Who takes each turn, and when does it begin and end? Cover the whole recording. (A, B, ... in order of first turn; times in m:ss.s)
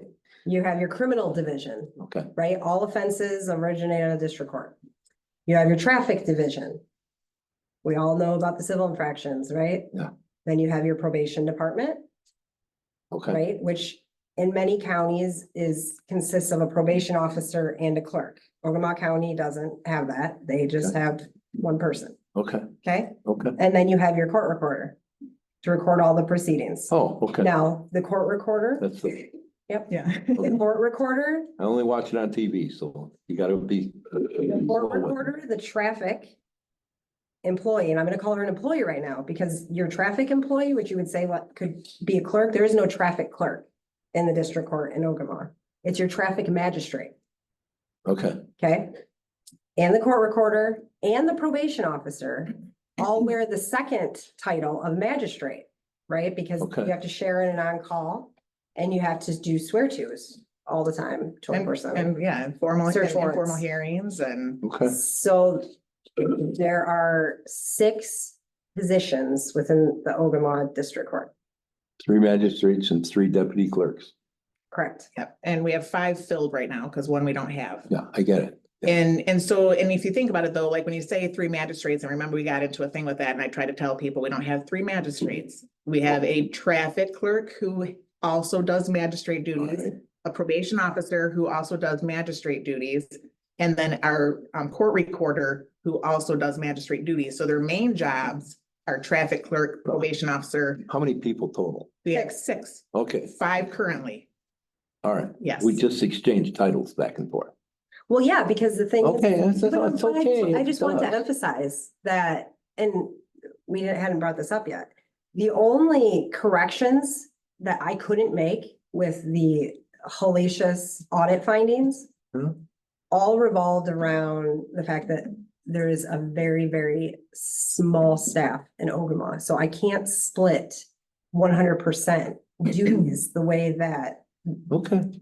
0:00.4-0:04.8 A
0:02.0-0:02.3 B
0:05.5-0:06.8 A
0:07.8-0:09.9 A
0:10.4-0:12.0 A
0:13.1-0:13.4 B
0:13.3-0:22.2 A
0:22.3-0:22.7 B
0:22.8-0:25.0 A
0:23.2-0:23.6 B
0:25.6-0:28.9 A
0:26.9-0:27.5 B
0:28.8-0:29.2 B
0:29.7-0:31.5 A
0:29.9-0:30.5 C
0:31.6-0:35.2 B
0:34.5-0:36.4 A
0:37.4-0:47.1 A
0:48.0-0:48.4 B
0:48.6-0:49.0 A
0:49.8-1:02.1 A
0:56.6-0:56.9 B
1:01.5-1:04.6 C
1:02.8-1:03.6 A
1:04.6-1:05.0 B
1:04.8-1:05.6 A
1:06.2-1:11.3 A
1:12.0-1:14.1 B
1:14.7-1:15.1 A
1:15.2-1:17.9 C
1:17.9-1:18.9 B
1:18.8-1:40.8 C
1:40.9-1:41.9 B
1:42.0-1:44.3 C
1:42.9-1:43.4 B
1:45.0-1:47.5 B
1:45.4-1:45.8 C
1:48.1-2:02.1 A
1:49.0-1:51.2 B
2:03.1-2:14.2 A
2:14.7-2:15.1 B